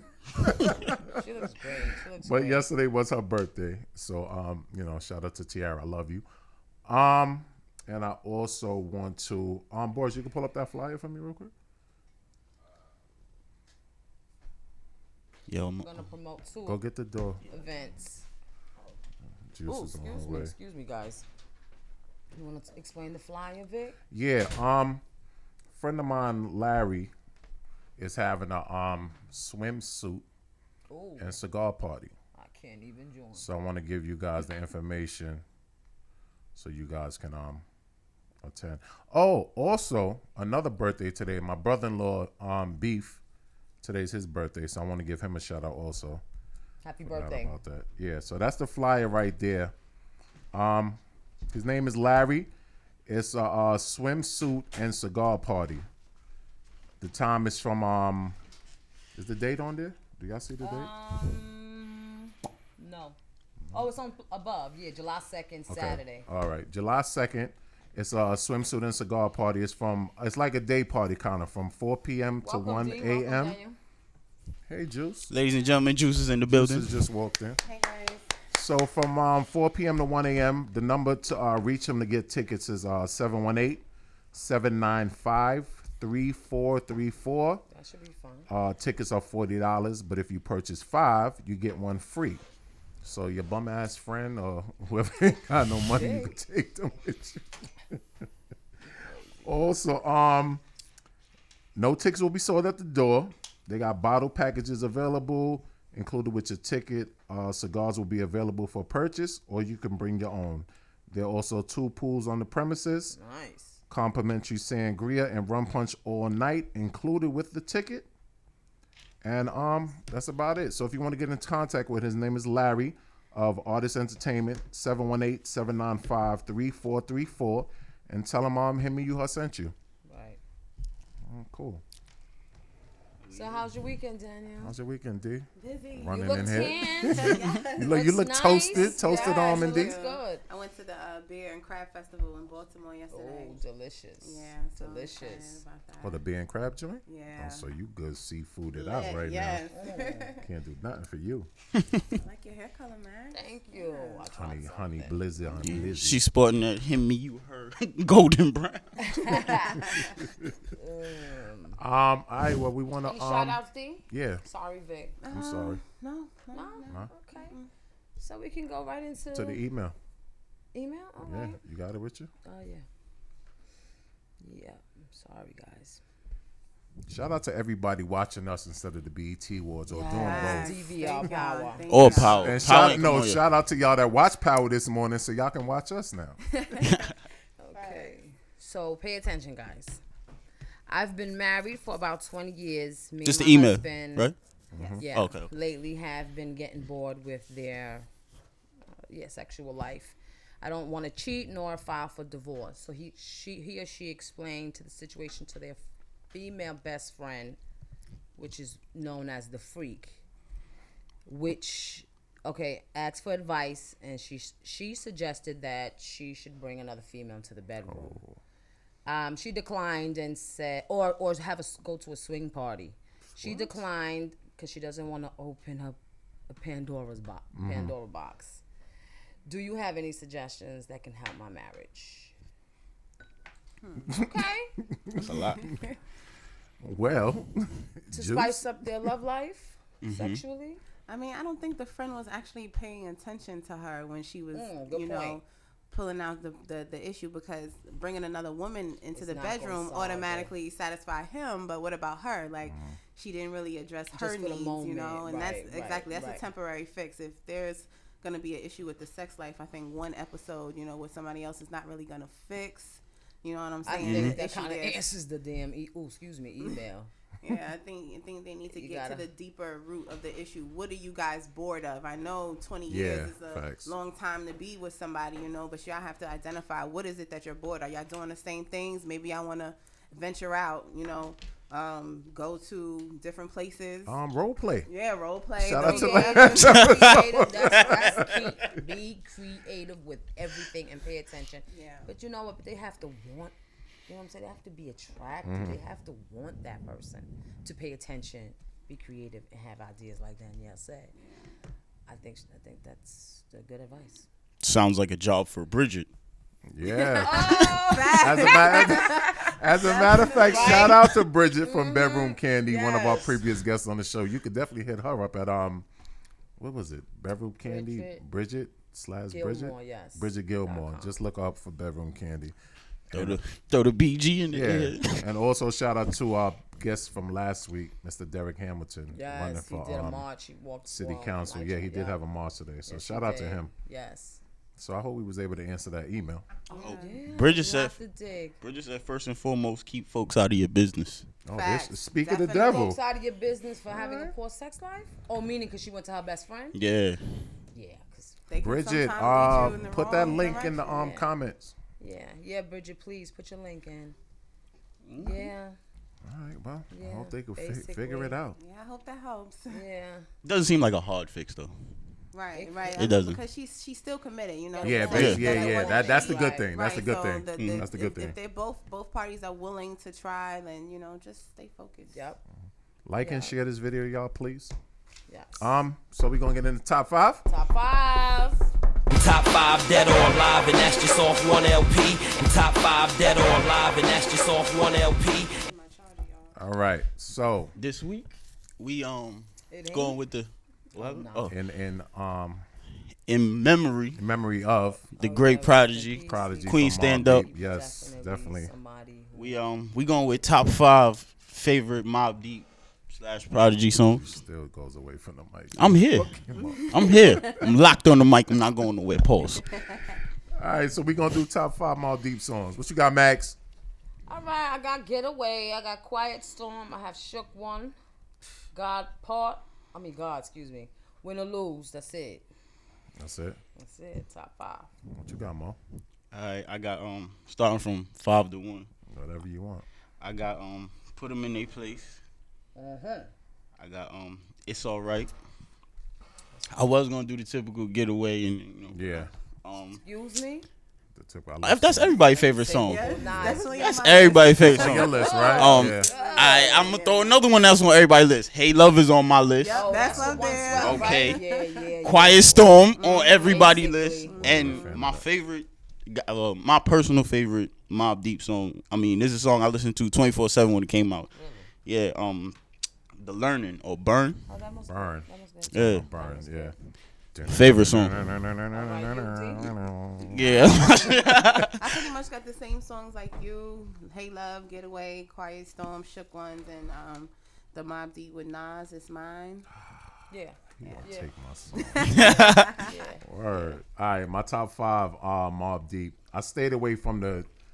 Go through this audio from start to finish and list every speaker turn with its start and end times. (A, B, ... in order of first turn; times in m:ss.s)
0:00.3-0:01.2 A
0:01.0-0:02.7 B
0:02.2-0:06.2 A
0:06.8-0:11.5 A
0:15.5-0:16.0 C
0:15.8-0:16.8 B
0:16.6-0:17.4 A
0:17.5-0:18.2 B
0:19.5-0:20.5 A
0:19.7-0:21.2 B
0:22.3-0:24.0 B
0:24.1-0:25.0 A
0:25.7-0:27.1 A
0:28.0-0:30.2 A
0:30.9-0:31.4 B
0:31.2-0:32.1 A
0:32.4-0:33.5 B
0:33.3-0:35.4 A
0:36.5-0:37.6 A
0:38.4-0:43.2 A
0:43.8-0:46.2 A
0:46.8-0:47.6 B
0:47.0-0:49.7 A
0:50.5-0:52.5 A
0:53.1-0:55.9 A
0:57.0-0:58.4 A
0:59.1-1:00.9 A
1:00.6-1:03.2 B
1:03.7-1:06.2 B
1:05.7-1:13.6 A
1:12.4-1:13.8 B
1:14.7-1:15.3 A
1:15.3-1:16.9 C
1:16.5-1:17.6 A
1:17.6-1:18.2 D
1:18.5-1:27.6 A
1:27.7-1:28.5 B
1:28.5-1:32.4 A
1:33.0-1:38.0 A
1:35.9-1:36.4 B
1:38.9-1:39.5 B
1:39.4-1:40.6 A
1:41.8-1:53.2 A
1:53.1-1:53.8 B
1:53.9-1:58.1 A
1:59.2-2:09.7 A
2:10.0-2:10.4 B
2:11.2-2:11.8 A
2:13.2-2:13.7 C
2:13.3-2:14.7 B
2:14.6-2:20.0 A
2:15.6-2:18.0 D
2:16.1-2:20.4 B
2:18.6-2:23.6 D
2:23.1-2:25.6 B
2:24.2-2:26.2 D
2:26.0-2:29.6 A
2:27.0-2:27.6 D
2:28.7-2:30.5 D
2:29.7-2:30.4 B
2:30.4-2:31.5 A
2:32.1-2:34.2 D
2:33.3-2:35.2 B
2:34.3-2:36.2 A
2:35.6-2:39.5 C
2:39.0-2:39.8 B
2:39.7-2:40.2 D
2:40.0-2:40.5 A
2:40.7-2:41.8 B
2:41.8-2:44.4 A
2:43.0-2:45.2 B
2:45.2-2:47.7 D
2:45.3-2:45.8 A
2:46.5-2:47.6 B
2:48.2-2:49.6 B
2:49.3-2:49.9 A
2:50.7-2:51.6 B
2:51.2-2:52.3 A
2:52.4-2:52.8 B
2:54.4-2:56.0 B
2:57.1-3:01.2 A
2:59.9-3:02.3 B
3:00.1-3:02.6 D
3:01.9-3:03.4 C
3:02.0-3:06.4 A
3:06.5-3:06.8 B
3:06.8-3:07.1 C
3:07.6-3:10.0 B
3:07.7-3:08.1 D
3:10.9-3:14.3 B
3:13.2-3:14.4 C
3:14.7-3:15.0 A
3:14.8-3:15.0 D
3:15.0-3:18.1 B
3:15.1-3:15.5 C
3:19.1-3:25.8 B
3:26.3-3:27.6 B
3:28.4-3:30.2 B
3:31.2-3:38.2 B
3:37.8-3:38.4 A
3:39.0-3:46.0 B
3:43.4-3:43.7 A
3:46.5-3:48.6 B
3:47.5-3:47.9 A
3:49.4-3:52.3 B
3:53.8-3:54.2 D
3:54.2-3:54.7 B
3:54.9-3:55.5 A
3:55.2-3:55.7 C
3:55.6-3:55.9 D
3:56.8-3:58.9 A
3:58.1-4:00.8 B
4:00.0-4:00.4 C
4:01.1-4:25.0 D
4:04.5-4:05.4 B
4:09.1-4:10.5 B
4:12.6-4:13.0 A
4:14.1-4:16.5 B
4:23.8-4:27.1 B
4:24.0-4:24.4 C
4:27.4-4:44.1 D
4:28.7-4:29.2 B
4:32.9-4:33.9 A
4:44.0-4:44.9 A
4:44.9-4:46.8 D
4:45.6-4:48.8 A
4:45.8-4:53.5 B
4:46.7-4:46.9 C
4:47.7-4:48.2 C
4:51.7-4:52.1 D
4:54.1-5:01.1 B
4:55.4-4:55.8 A
5:02.1-5:04.3 B
5:04.6-5:06.1 C
5:06.7-5:15.8 A
5:07.1-5:11.1 D
5:07.2-5:09.6 B
5:10.2-5:11.0 B
5:11.6-5:13.4 B
5:16.6-5:22.5 A
5:17.6-5:18.2 B
5:19.3-5:21.2 B
5:23.1-5:23.4 A
5:23.1-5:25.2 C
5:24.5-5:30.2 A
5:29.1-5:32.2 B
5:30.9-5:33.7 A
5:32.8-5:34.4 B
5:34.8-5:36.4 A
5:36.7-5:37.2 D
5:36.8-5:38.6 B
5:36.8-5:37.9 C
5:38.6-5:41.3 C
5:41.4-5:43.0 A
5:41.5-5:43.0 D
5:42.6-5:46.8 B
5:43.9-5:44.3 D
5:46.7-5:47.2 C
5:47.7-5:48.4 B
5:48.5-5:51.0 D
5:48.6-5:51.7 A
5:49.3-5:51.3 B
5:52.0-5:54.2 B
5:55.0-5:55.5 C
5:55.2-5:55.8 B
5:56.2-5:58.6 A
5:56.9-5:58.4 B
5:58.6-5:59.8 D
5:59.7-6:00.2 B
6:00.4-6:01.7 C
6:02.3-6:12.2 D
6:02.5-6:03.0 B
6:03.0-6:03.4 C
6:04.7-6:06.7 B
6:04.8-6:08.4 A
6:05.1-6:05.4 C
6:07.6-6:07.8 C
6:12.1-6:12.4 B
6:13.0-6:14.7 A
6:13.2-6:13.5 B
6:15.3-6:15.6 B
6:15.6-6:17.4 A
6:17.4-6:18.7 B
6:19.1-6:25.6 E
6:25.7-6:26.6 D
6:26.5-6:27.7 A
6:27.8-6:31.5 C
6:29.7-6:30.2 B
6:30.9-6:31.5 B
6:31.5-6:32.6 A
6:33.3-6:34.2 C
6:34.2-6:35.1 A
6:35.2-6:39.6 B
6:35.2-6:37.4 C
6:36.2-6:38.7 A
6:39.4-6:44.2 C
6:44.1-6:47.4 A
6:45.8-6:46.3 C
6:46.6-6:47.6 D
6:46.8-6:49.7 C
6:49.8-6:50.2 D
6:50.6-6:53.6 A
6:54.3-6:58.0 B
6:58.7-7:02.5 B
7:03.2-7:03.6 A
7:03.8-7:04.9 B
7:05.1-7:05.8 A
7:06.3-7:08.9 C
7:09.1-7:09.8 A
7:10.2-7:12.2 C
7:12.7-7:13.3 B
7:13.8-7:15.3 C
7:16.7-7:20.0 C
7:18.9-7:19.3 A
7:20.0-7:20.7 B
7:21.1-7:22.2 A
7:21.6-7:31.4 C
7:22.3-7:27.0 B
7:22.9-7:27.3 D
7:23.3-7:23.6 A
7:24.6-7:26.1 A
7:29.6-7:31.8 D
7:29.7-7:34.8 B
7:30.0-7:31.1 A
7:32.0-7:41.3 C
7:32.9-7:34.8 D
7:34.4-7:35.2 A
7:41.3-7:41.7 B
7:41.8-7:42.5 C
7:43.2-7:44.4 C
7:44.5-7:46.7 B
7:44.9-7:46.7 A
7:45.7-7:46.0 C
7:47.3-7:51.7 A
7:47.5-7:48.1 C
7:48.7-7:49.7 B
7:50.3-7:51.8 C
7:50.5-7:51.1 D
7:51.8-7:59.7 D
8:00.3-8:01.3 B
8:00.8-8:02.1 A
8:01.8-8:02.9 D
8:02.1-8:02.7 C
8:02.2-8:03.8 B
8:03.2-8:07.5 A